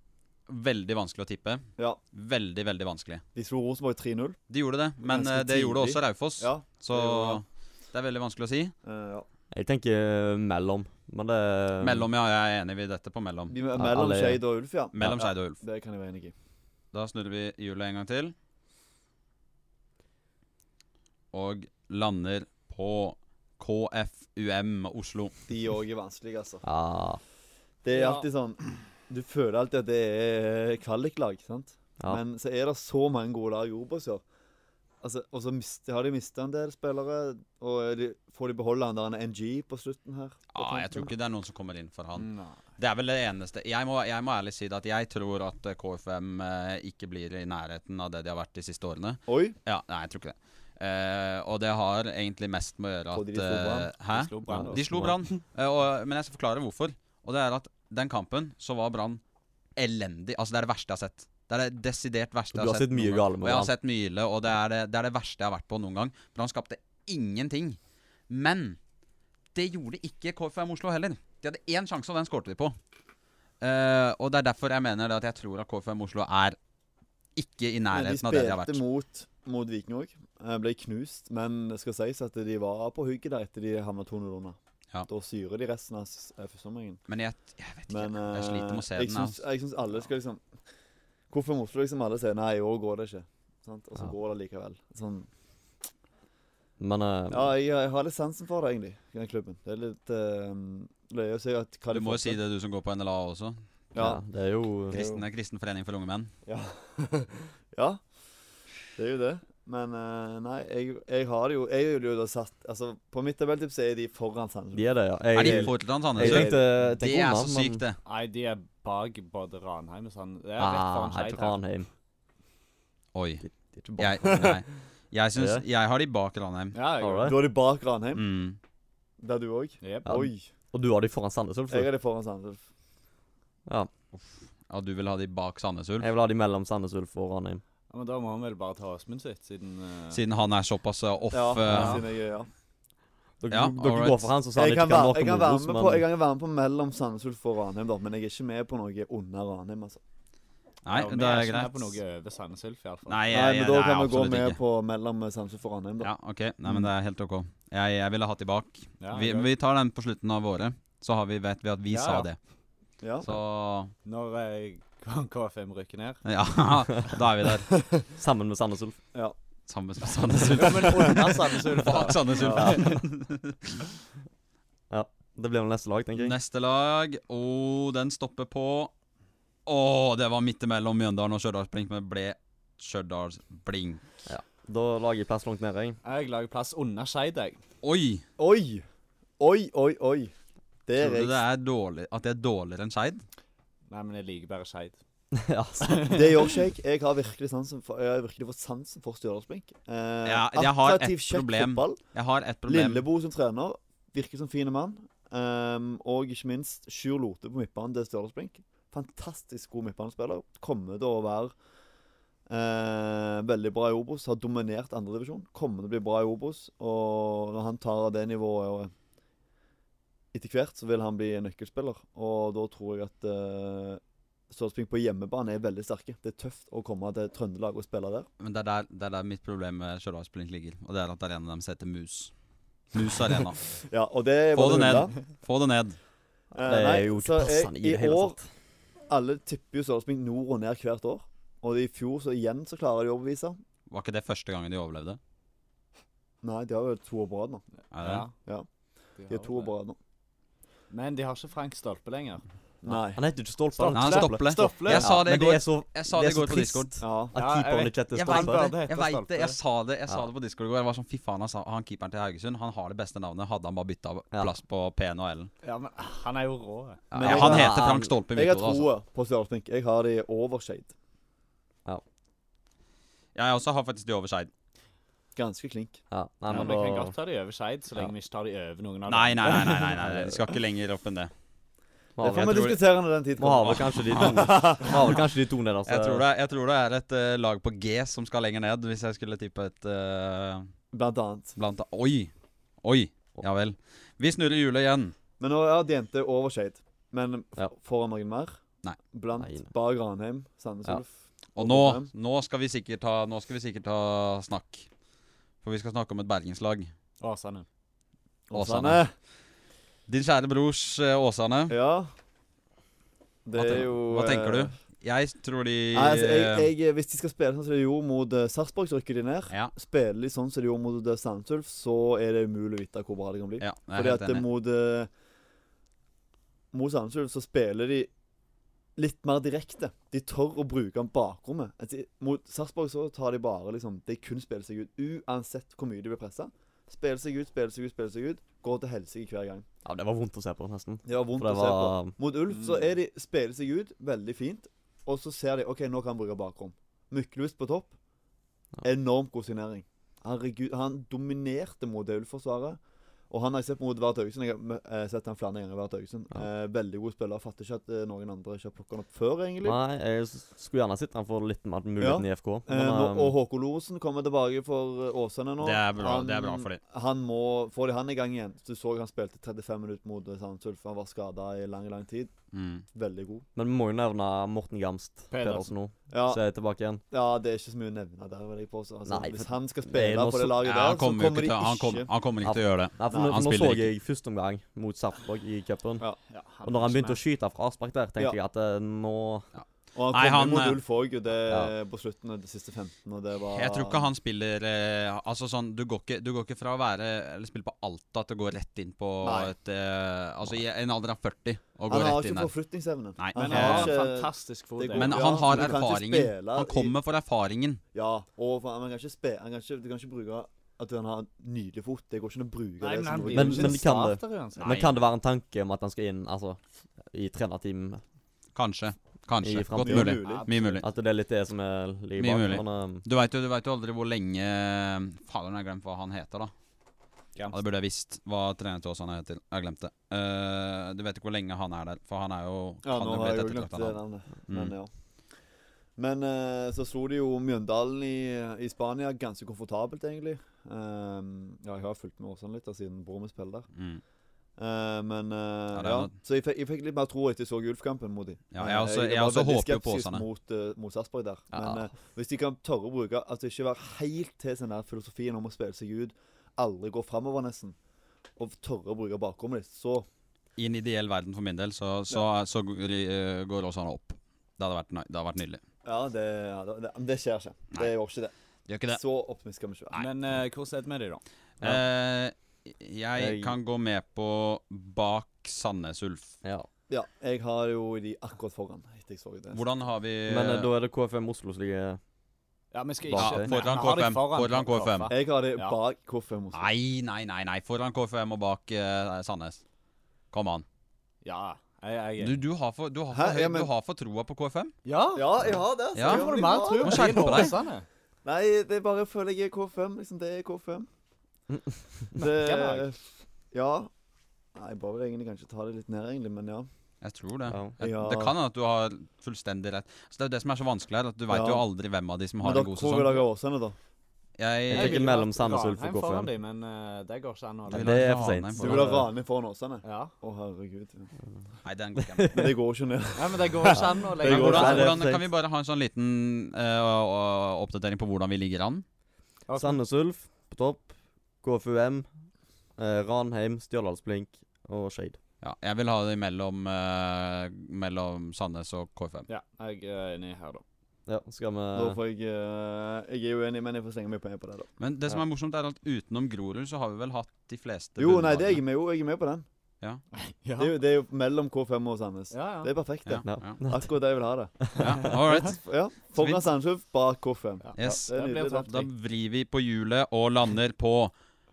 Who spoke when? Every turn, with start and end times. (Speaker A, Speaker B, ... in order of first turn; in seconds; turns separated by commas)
Speaker A: 0.5-3.2, Speaker B: 3.4-4.4, Speaker A: 4.5-8.7, Speaker B: 5.0-7.4, Speaker B: 8.8-9.3, Speaker C: 9.5-12.1, Speaker A: 11.8-13.6, Speaker B: 13.5-16.3, Speaker C: 13.8-14.4, Speaker A: 14.9-15.6, Speaker A: 16.9-18.4, Speaker A: 21.3-25.3, Speaker B: 25.5-26.6, Speaker C: 26.6-27.2, Speaker B: 27.8-34.2, Speaker D: 27.9-28.3, Speaker B: 35.0-41.1, Speaker A: 40.5-59.2, Speaker D: 42.2-42.6, Speaker B: 49.3-49.6, Speaker B: 53.1-53.9, Speaker D: 54.1-54.8, Speaker C: 54.5-55.2, Speaker A: 59.8-68.8, Speaker C: 62.5-63.7, Speaker A: 69.5-72.8, Speaker A: 73.6-76.6, Speaker A: 77.4-78.8, Speaker B: 77.9-87.0, Speaker A: 87.1-89.4, Speaker B: 87.9-90.4, Speaker B: 91.3-95.3, Speaker C: 96.8-97.5, Speaker B: 97.3-102.4, Speaker A: 101.9-103.6, Speaker B: 103.9-104.2, Speaker C: 104.0-105.2, Speaker A: 104.9-106.3, Speaker B: 104.9-105.2, Speaker B: 106.5-108.0, Speaker B: 109.0-116.7, Speaker C: 114.7-117.8, Speaker A: 115.3-118.0, Speaker D: 118.0-121.6, Speaker C: 120.6-121.9, Speaker A: 123.2-123.5, Speaker C: 123.7-124.6, Speaker A: 124.0-126.8, Speaker C: 125.3-125.6, Speaker D: 126.7-127.5, Speaker C: 127.0-127.4, Speaker B: 127.2-128.2, Speaker A: 128.2-128.6, Speaker B: 129.2-130.5, Speaker D: 129.8-130.2, Speaker C: 130.1-131.9, Speaker B: 131.7-132.6, Speaker A: 134.7-136.1, Speaker C: 136.0-137.6, Speaker D: 137.9-140.2, Speaker A: 140.1-142.1, Speaker B: 141.3-142.5, Speaker D: 141.7-142.0, Speaker C: 143.4-146.1, Speaker A: 143.5-144.3, Speaker B: 144.5-150.0, Speaker A: 150.8-152.0, Speaker D: 150.9-153.3, Speaker A: 153.1-154.6, Speaker B: 153.3-156.1, Speaker A: 156.0-162.4, Speaker D: 159.0-159.5, Speaker D: 161.9-162.3, Speaker B: 163.0-163.3, Speaker A: 163.2-163.9, Speaker D: 164.1-166.2, Speaker A: 166.2-167.7, Speaker B: 167.7-168.1, Speaker C: 168.2-169.0, Speaker A: 169.7-173.8, Speaker D: 170.4-173.0, Speaker C: 172.4-173.0, Speaker C: 174.9-176.3, Speaker A: 176.2-178.9, Speaker A: 179.7-184.0, Speaker C: 184.3-186.0, Speaker D: 186.0-187.6, Speaker A: 187.8-188.2, Speaker B: 188.4-188.8, Speaker B: 189.4-190.3, Speaker B: 190.9-191.4, Speaker A: 191.0-193.2, Speaker D: 193.9-195.0, Speaker C: 195.3-196.1, Speaker D: 195.8-196.2, Speaker B: 196.1-202.0, Speaker A: 200.2-203.1, Speaker B: 202.7-211.5, Speaker B: 212.5-218.9, Speaker B: 220.3-228.3, Speaker A: 228.4-232.3, Speaker A: 232.9-233.6, Speaker B: 233.8-235.2, Speaker A: 234.5-236.0, Speaker B: 236.5-238.4, Speaker C: 236.6-238.4, Speaker B: 239.1-243.6, Speaker A: 243.9-245.2, Speaker B: 246.4-247.6, Speaker A: 247.9-248.3, Speaker D: 248.0-248.3, Speaker D: 249.2-249.7, Speaker B: 249.3-250.0, Speaker D: 250.9-252.4, Speaker B: 252.8-253.2, Speaker C: 252.9-258.8, Speaker D: 253.8-255.2, Speaker A: 253.9-256.9, Speaker B: 257.0-257.4, Speaker D: 257.3-259.6, Speaker A: 258.1-265.5, Speaker D: 265.6-267.1, Speaker A: 267.1-268.9, Speaker B: 267.1-270.9, Speaker C: 267.2-268.1, Speaker A: 273.4-274.5, Speaker B: 275.4-276.0, Speaker C: 276.1-277.1, Speaker D: 276.5-280.0, Speaker A: 279.1-281.3, Speaker C: 280.0-280.4, Speaker C: 282.2-282.8, Speaker B: 282.2-285.2, Speaker A: 282.4-282.8, Speaker C: 283.4-286.2, Speaker A: 283.6-284.9, Speaker A: 285.9-290.7, Speaker B: 290.9-291.6, Speaker A: 291.6-292.3, Speaker A: 292.8-295.1, Speaker B: 295.4-298.6, Speaker B: 299.1-302.1, Speaker C: 299.4-299.7, Speaker A: 301.6-304.9, Speaker A: 305.6-306.9, Speaker D: 307.2-307.7, Speaker B: 308.5-309.1, Speaker A: 308.5-309.1, Speaker A: 310.1-311.8, Speaker B: 311.7-312.1, Speaker B: 313.4-314.7, Speaker A: 313.6-316.7, Speaker B: 315.9-325.1, Speaker A: 323.6-324.4, Speaker B: 326.7-328.1, Speaker B: 329.0-339.7, Speaker C: 339.9-342.2, Speaker B: 341.1-347.9, Speaker D: 342.5-342.9, Speaker B: 348.8-352.8, Speaker B: 353.3-359.8, Speaker C: 359.6-363.4, Speaker B: 362.0-372.3, Speaker A: 365.6-366.8, Speaker A: 372.5-372.9, Speaker B: 372.9-373.5, Speaker C: 373.6-377.0, Speaker D: 375.3-375.7, Speaker B: 376.1-376.4, Speaker B: 377.1-382.1, Speaker C: 379.1-380.6, Speaker A: 380.6-383.9, Speaker C: 382.4-386.1, Speaker B: 383.1-383.4, Speaker D: 386.3-387.2, Speaker C: 386.6-389.5, Speaker A: 389.5-390.8, Speaker B: 389.9-394.1, Speaker C: 391.5-391.7, Speaker A: 393.5-402.5, Speaker B: 399.2-399.5, Speaker B: 401.9-406.9, Speaker A: 403.2-404.0, Speaker D: 403.4-405.7, Speaker A: 404.9-407.8, Speaker B: 407.9-413.9, Speaker D: 412.8-414.8, Speaker C: 413.3-418.0, Speaker A: 414.6-415.0, Speaker A: 418.6-420.9, Speaker C: 419.4-420.3, Speaker B: 419.8-420.8, Speaker D: 420.2-420.7, Speaker C: 420.8-423.1, Speaker A: 422.2-426.5, Speaker A: 427.5-434.8, Speaker B: 432.8-434.9, Speaker B: 436.0-443.7, Speaker A: 443.7-444.0, Speaker B: 444.6-457.8, Speaker A: 445.7-446.1, Speaker A: 448.5-450.2, Speaker C: 451.5-451.9, Speaker B: 458.4-460.1, Speaker A: 460.6-465.6, Speaker B: 465.9-468.3, Speaker A: 468.7-469.0, Speaker B: 468.9-470.0, Speaker D: 470.0-471.2, Speaker A: 471.6-476.4, Speaker C: 473.2-473.6, Speaker B: 476.9-479.6, Speaker A: 479.5-480.7, Speaker C: 480.3-482.0, Speaker D: 482.7-485.8, Speaker C: 483.1-483.5, Speaker A: 483.2-485.1, Speaker B: 485.1-486.7, Speaker A: 486.5-489.6, Speaker A: 490.3-490.6, Speaker D: 491.2-492.4, Speaker A: 492.2-494.7, Speaker B: 493.1-493.7, Speaker D: 494.9-497.9, Speaker B: 495.1-497.5, Speaker A: 495.9-497.6, Speaker B: 498.2-500.9, Speaker B: 502.1-503.9, Speaker D: 502.2-502.9, Speaker B: 504.6-506.7, Speaker A: 507.0-513.2, Speaker C: 507.5-507.8, Speaker B: 507.8-508.4, Speaker B: 511.3-511.6, Speaker B: 512.4-513.8, Speaker A: 514.4-515.1, Speaker C: 514.7-516.3, Speaker D: 514.7-518.2, Speaker C: 517.7-519.1, Speaker A: 517.7-519.0, Speaker B: 518.6-521.1, Speaker D: 519.8-520.1, Speaker A: 521.6-522.4, Speaker C: 522.0-522.5, Speaker B: 522.3-524.9, Speaker D: 523.2-524.9, Speaker C: 523.7-525.3, Speaker A: 524.2-528.8, Speaker D: 529.5-529.8, Speaker C: 529.6-532.1, Speaker C: 532.8-535.2, Speaker A: 535.4-539.3, Speaker D: 539.3-540.6, Speaker C: 541.1-542.0, Speaker B: 541.7-544.7, Speaker A: 544.8-548.6, Speaker B: 548.0-549.5, Speaker D: 550.1-550.8, Speaker B: 550.6-558.8, Speaker D: 552.3-552.7, Speaker A: 553.1-553.6, Speaker C: 553.2-553.9, Speaker C: 554.7-555.1, Speaker A: 554.8-555.6, Speaker A: 556.1-556.5, Speaker D: 557.6-558.9, Speaker A: 557.8-561.1